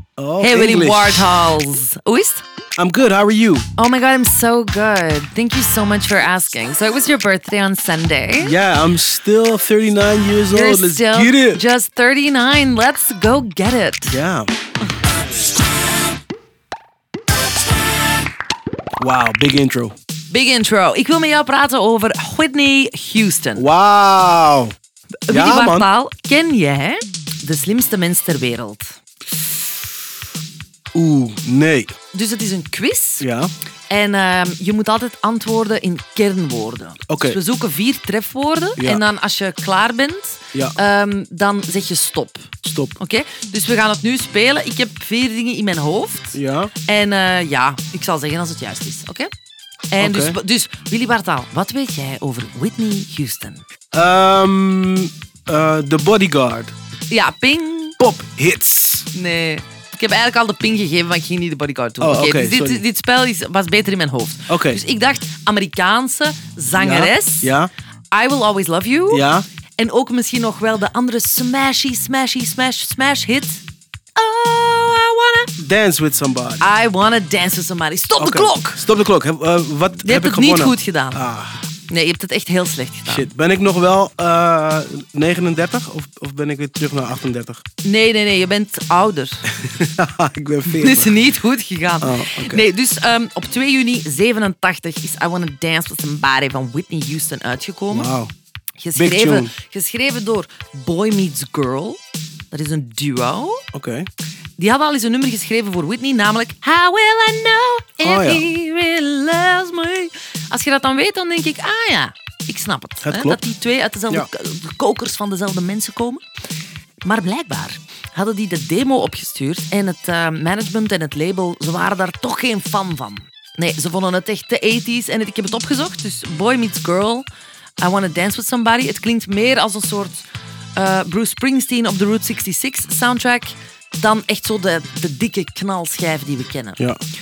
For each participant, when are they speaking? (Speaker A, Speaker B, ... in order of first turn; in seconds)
Speaker A: 0.2-1.3, 2.8-3.7, 8.4-11.6, 14.1-14.5, 19.0-19.9, 23.6-24.7, 25.3-25.9, 30.9-31.9, 33.2-33.5, 37.1-37.4, 38.8-39.0, 42.6-42.9, 46.3-46.7, 50.0-50.4, 53.9-56.7, 58.0-59.1, 62.0-62.8, 64.5-64.8, 66.7-67.7, 69.1-69.4, 75.6-76.6, 78.2-81.6, 83.1-87.6, 89.5-91.2, 92.0-92.7, 97.9-98.3, 99.0-99.5, 103.7-104.1, 108.0-108.5, 113.0-113.4
Speaker B: 0.4-2.4, 3.8-8.6, 10.5-14.2, 20.3-23.6, 25.3-29.0, 32.1-33.2, 33.9-49.3, 49.9-53.6, 57.1-58.0, 59.1-67.5, 68.1-69.3, 69.8-73.6, 74.2-75.5, 76.6-78.8, 80.0-81.2, 81.9-83.3, 87.8-89.5, 90.6-98.1, 98.8-102.0, 102.5-103.6, 104.6-116.2, 117.0-127.2, 127.8-130.2, 130.8-136.8